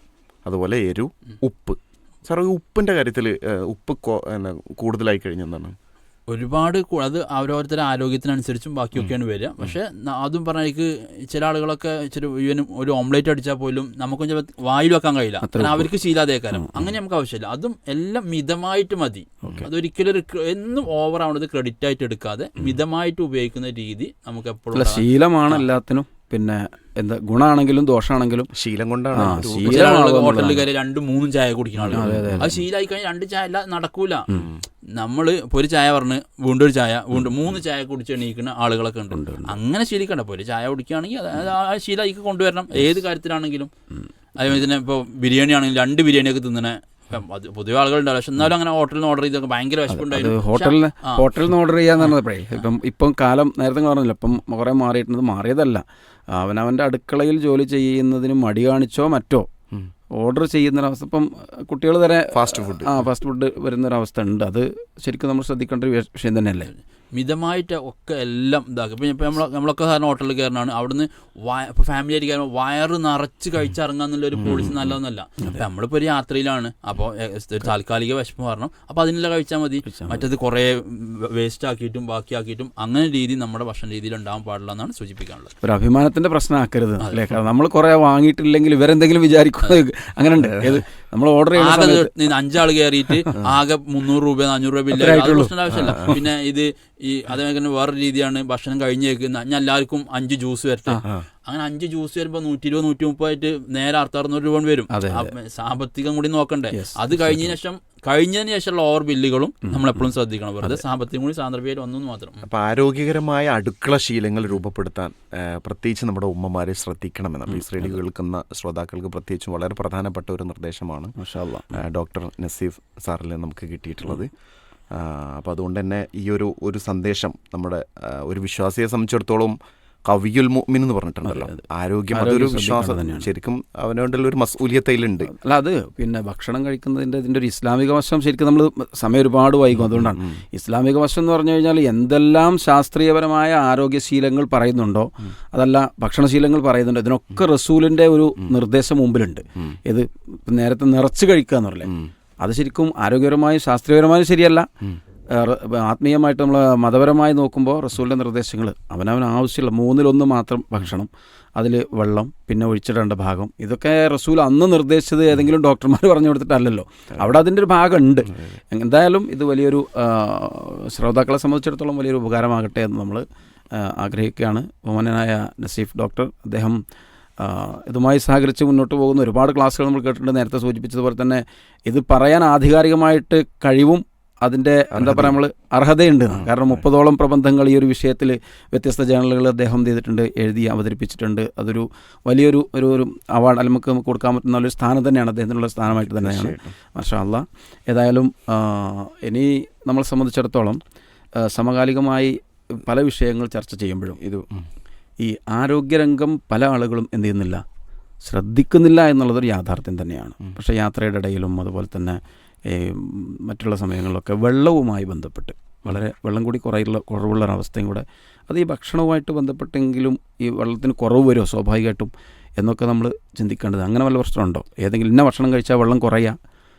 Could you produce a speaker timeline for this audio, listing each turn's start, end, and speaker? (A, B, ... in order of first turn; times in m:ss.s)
0:00.4-0:05.8 A
0:06.3-0:25.6 B
0:15.4-0:15.9 C
0:16.5-0:16.9 C
0:24.7-0:28.5 C
0:28.5-0:30.0 A
0:29.1-0:30.7 C
0:29.5-0:34.3 B
0:31.9-0:32.5 C
0:31.9-0:32.6 A
0:35.0-0:43.7 B
0:39.1-0:39.6 C
0:44.4-0:51.3 B
0:49.9-0:59.5 C
1:00.2-1:06.7 C
1:02.3-1:03.1 A
1:07.1-1:25.5 B
1:14.4-1:14.8 A
1:19.9-1:20.3 C
1:25.6-1:32.1 C
1:27.0-1:27.3 B
1:31.6-1:52.4 B
1:33.1-1:33.3 C
1:34.9-1:36.2 C
1:35.8-1:36.1 A
1:44.9-1:45.3 C
1:46.7-1:47.6 C
1:49.7-1:50.0 C
1:52.4-2:01.1 A
1:57.5-1:58.0 C
2:01.2-2:01.8 C
2:01.7-2:04.3 A
2:04.9-2:09.6 A
2:10.1-2:15.3 A
2:11.2-2:11.6 C
2:12.1-2:13.3 C
2:15.3-2:34.7 C
2:35.3-2:56.8 C
2:48.3-2:48.6 A
2:57.4-3:20.8 C
3:04.9-3:05.4 A
3:06.4-3:06.8 A
3:16.0-3:16.8 A
3:21.4-3:24.2 C
3:24.2-3:24.6 A
3:25.2-3:27.6 C
3:28.2-3:46.4 C